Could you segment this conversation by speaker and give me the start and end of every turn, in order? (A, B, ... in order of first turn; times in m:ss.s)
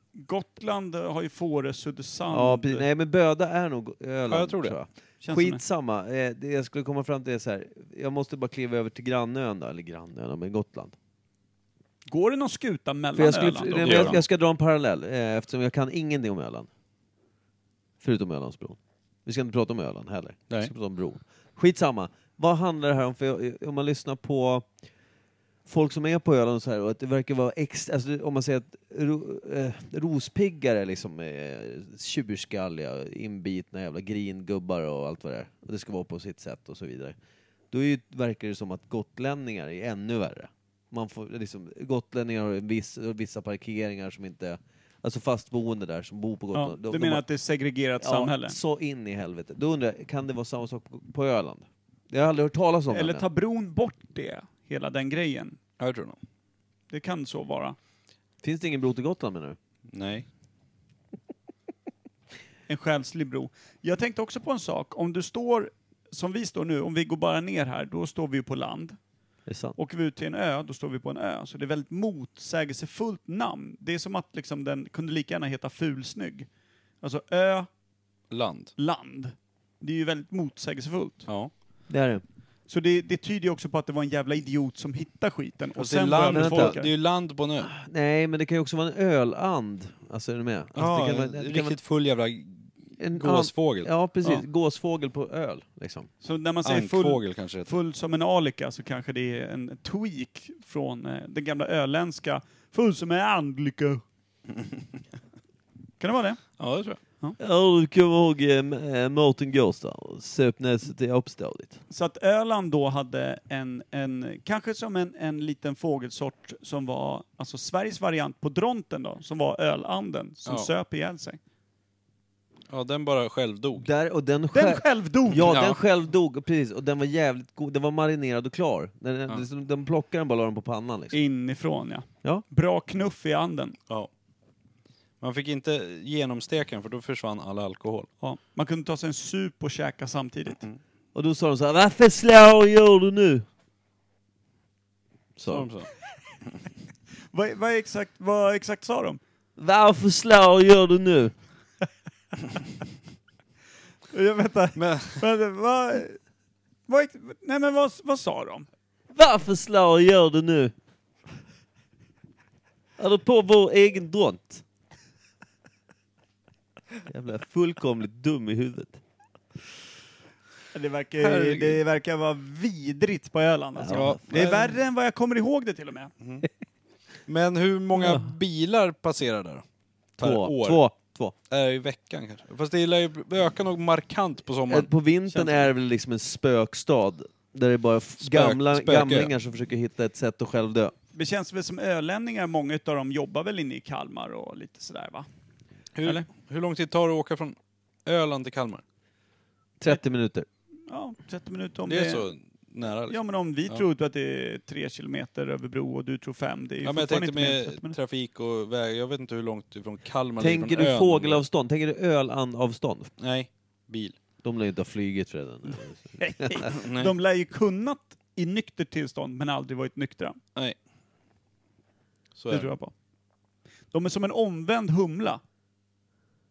0:00.2-0:02.9 A
0:02.3-0:11.0 B
0:04.3-0:04.8 C
0:05.2-0:05.6 A
0:12.1-0:14.2 A
0:13.2-0:16.7 B
0:13.8-0:14.2 C
0:18.0-0:24.7 B
0:25.7-0:37.2 B
0:37.7-0:47.2 B
0:46.5-0:48.6 A
0:48.0-0:53.2 B
0:52.9-0:55.6 A
0:55.8-0:56.2 C
0:56.9-0:57.8 A
0:58.4-0:59.6 B
0:59.9-1:00.3 C
1:02.7-1:09.0 A
1:09.5-1:09.8 B
1:09.8-1:16.5 A
1:17.0-1:17.7 A
1:18.3-1:18.7 C
1:18.8-1:21.3 A
1:21.9-1:22.2 B
1:22.7-1:26.9 A
1:25.8-1:27.7 C
1:26.3-1:26.8 B
1:27.6-1:31.8 B
1:30.8-1:33.9 C
1:33.0-1:36.1 B
1:36.2-1:44.0 A
1:36.6-1:37.7 C
1:46.0-1:46.6 A
1:46.6-1:47.0 C
1:47.4-1:51.8 B
1:51.9-2:01.4 A
2:02.7-2:03.9 C
2:03.8-2:11.2 B
2:04.5-2:05.6 A
2:05.4-2:05.8 C
2:11.1-2:13.8 A
2:15.2-2:18.1 C
2:18.2-2:20.6 A
2:21.1-2:23.4 B
2:25.4-2:25.7 B
2:25.5-2:25.9 C
2:27.3-2:29.2 A
2:29.6-2:31.3 B
2:34.1-2:36.2 A
2:34.8-2:35.2 C
2:36.9-2:38.7 A
2:39.1-2:40.7 B
2:43.0-2:44.6 B
2:47.1-2:49.0 B
2:50.7-2:56.1 A
2:51.2-2:51.8 C
2:53.8-2:54.4 B
2:53.9-2:54.7 C
2:57.3-2:59.6 C
3:00.2-3:00.8 C
3:00.2-3:01.3 B
3:01.5-3:04.9 C
3:04.7-3:10.9 B
3:08.2-3:09.3 C
3:11.1-3:15.3 A
3:16.0-3:18.8 C
3:19.8-3:20.5 B
3:20.9-3:22.2 A
3:21.9-3:23.8 C
3:23.1-3:28.0 A
3:26.8-3:31.4 C
3:30.4-3:33.1 B
3:33.2-3:34.2 C
3:34.4-3:36.7 B
3:36.2-3:40.4 A
3:36.7-3:37.1 C
3:42.4-3:42.7 C
3:42.5-3:42.9 A
3:43.9-3:45.4 A